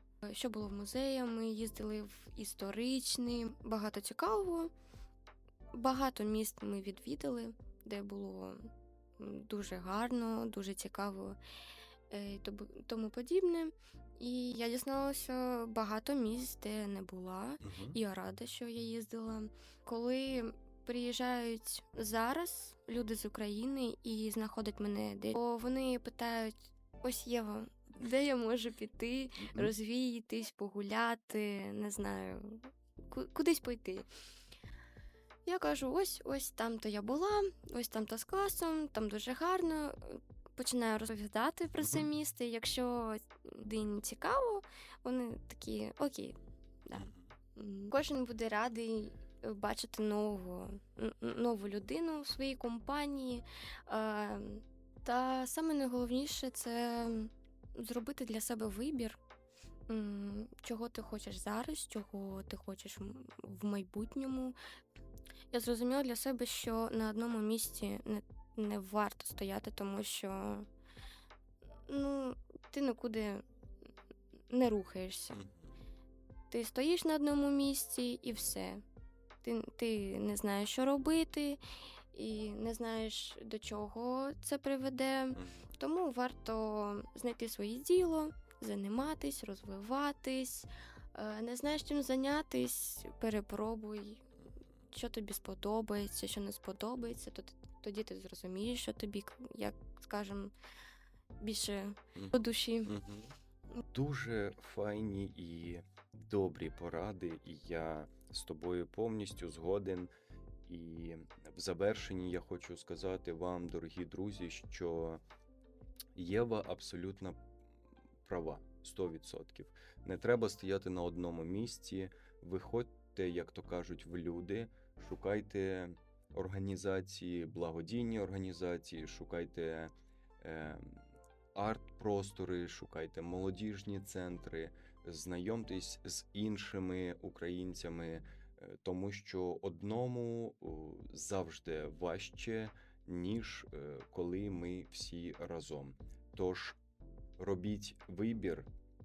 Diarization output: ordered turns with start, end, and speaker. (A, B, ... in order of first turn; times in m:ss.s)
0:00.2-0:04.7 A
0:05.7-0:11.4 A
0:12.1-0:34.1 A
0:17.6-0:18.0 B
0:29.4-0:29.7 B
0:35.4-0:46.4 A
0:41.8-0:42.0 B
0:46.9-0:59.2 A
0:47.0-0:47.2 B
0:59.9-1:04.5 A
1:05.5-1:10.7 A
1:11.9-1:13.4 A
1:14.5-1:15.4 A
1:15.3-1:15.7 B
1:16.5-1:18.8 A
1:19.4-1:21.6 A
1:22.1-1:34.3 A
1:25.4-1:25.7 B
1:34.9-1:40.5 A
1:41.4-1:43.0 A
1:42.8-1:43.3 B
1:43.9-1:50.1 B
1:50.6-1:55.2 B
1:56.1-1:57.4 B
1:58.2-2:11.0 B
2:11.5-2:26.8 B
2:27.4-2:28.7 B